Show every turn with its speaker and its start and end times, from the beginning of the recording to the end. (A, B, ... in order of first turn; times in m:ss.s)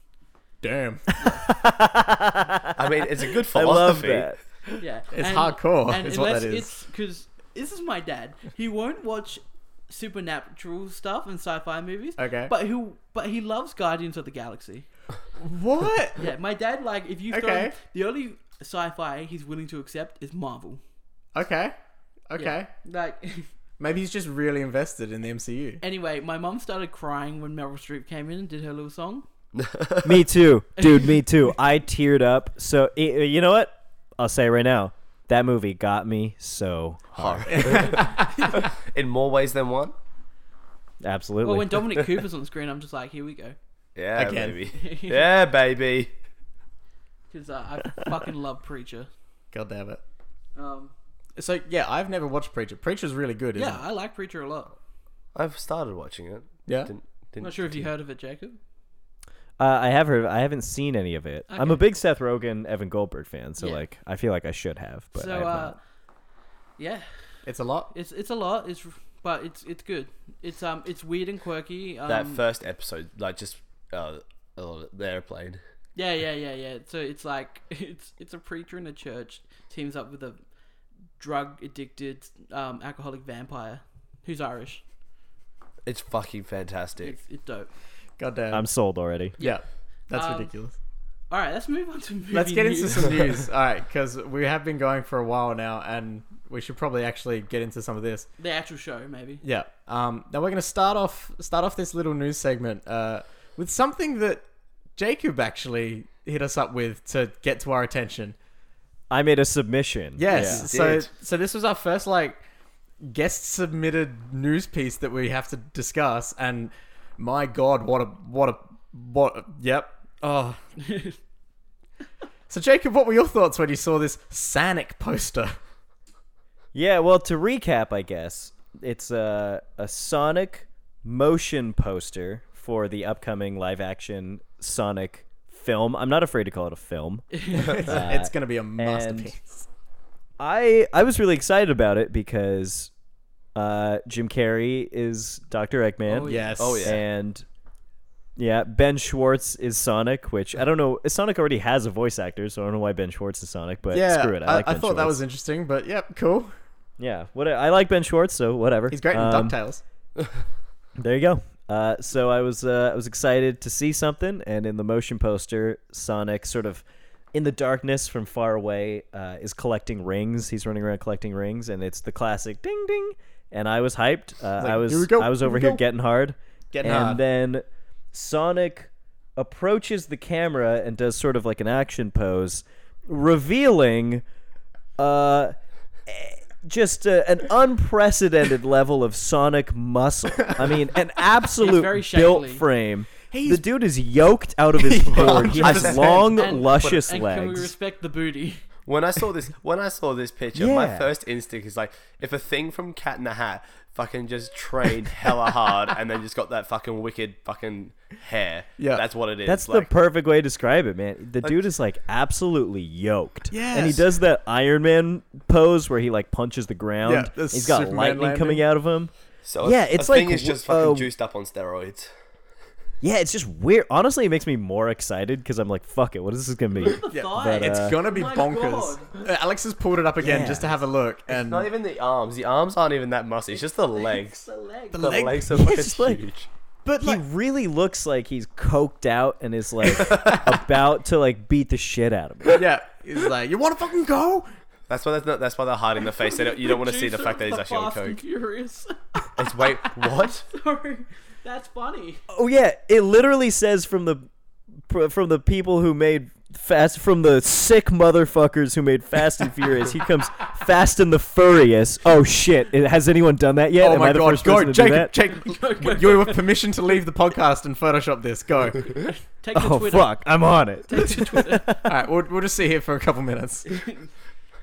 0:00.6-0:01.1 A
0:01.3-0:02.7 B
0:02.7-0:04.3 C
0:03.5-0:04.4 B
0:04.8-0:14.9 D
0:05.1-0:06.7 A
0:12.2-0:12.5 A
0:15.4-0:16.2 A
0:16.2-0:20.8 D
0:17.3-0:17.7 A
0:21.3-0:21.7 A
0:22.3-0:22.7 A
0:22.4-0:23.5 D
0:23.8-0:25.8 A
0:25.8-0:29.2 D
0:29.5-0:30.2 C
0:30.0-0:37.9 B
0:37.2-0:39.9 C
0:37.5-0:38.3 A
0:38.0-0:38.6 D
0:41.0-0:42.1 B
0:41.4-0:43.5 D
0:43.9-0:46.1 C
0:44.2-0:44.6 A
0:44.7-0:45.3 D
0:47.3-0:49.1 D
0:49.5-0:50.0 A
0:50.6-0:50.9 D
0:51.4-0:53.8 A
0:53.6-0:54.7 D
0:55.3-0:57.8 C
0:56.7-0:56.9 A
0:57.4-0:58.6 D
0:59.6-1:05.8 B
1:01.5-1:01.8 D
1:03.6-1:03.8 D
1:05.1-1:05.8 D
1:06.8-1:07.0 D
1:07.4-1:07.9 A
1:07.9-1:12.4 D
1:12.0-1:15.6 C
1:15.9-1:20.4 D
1:21.2-1:24.8 D
1:25.8-1:27.1 C
1:27.0-1:27.7 D
1:28.2-1:28.6 A
1:28.5-1:29.4 B
1:29.4-1:30.7 A
1:30.1-1:30.5 D
1:31.3-1:33.2 D
1:32.3-1:38.3 A
1:38.4-1:39.4 D
1:39.4-1:44.4 A
1:45.0-1:48.3 A
1:49.1-1:50.7 B
1:50.2-1:52.4 A
1:50.3-1:51.1 C
1:53.0-2:00.6 A
2:00.8-2:01.2 D
2:02.5-2:05.6 A
2:06.7-2:19.3 B
2:17.3-2:17.8 D
2:17.5-2:19.6 A
2:20.4-2:22.9 B
2:23.5-2:27.4 B
2:26.0-2:26.6 D
2:26.2-2:26.9 A
2:26.6-2:27.0 C
2:28.4-2:35.2 B
2:33.9-2:36.5 A
2:37.0-2:39.6 B
2:38.9-2:39.8 A
2:41.0-3:04.2 B
2:54.6-2:55.8 A
2:56.7-2:57.2 A
3:05.0-3:05.5 B
3:06.1-3:17.7 B
3:11.6-3:12.6 D
3:13.3-3:13.6 A
3:14.7-3:16.2 A
3:15.1-3:16.6 C
3:16.3-3:18.6 D
3:18.8-3:29.9 C
3:20.5-3:21.1 B
3:28.8-3:29.0 A
3:29.4-3:41.1 B
3:33.5-3:34.0 A
3:37.0-3:38.6 A
3:39.4-3:42.1 C
3:43.0-3:48.0 B
3:46.8-3:49.1 D
3:47.1-3:51.7 A
3:50.2-3:50.7 B
3:51.3-3:54.4 C
3:53.9-3:55.2 D
3:54.9-3:56.0 A
3:55.0-3:56.5 C
3:55.6-3:56.2 B
3:56.8-3:57.2 A
3:57.0-4:02.6 B
3:59.9-4:00.4 C
4:02.5-4:04.5 A
4:04.9-4:08.2 C
4:06.2-4:12.2 D
4:09.4-4:10.5 C
4:12.3-4:14.3 B
4:14.8-4:25.1 B
4:23.8-4:29.0 A
4:25.2-4:26.4 D
4:29.0-4:30.2 D
4:29.5-4:31.9 B
4:30.9-4:31.8 D
4:31.8-4:33.8 A
4:33.6-4:34.1 D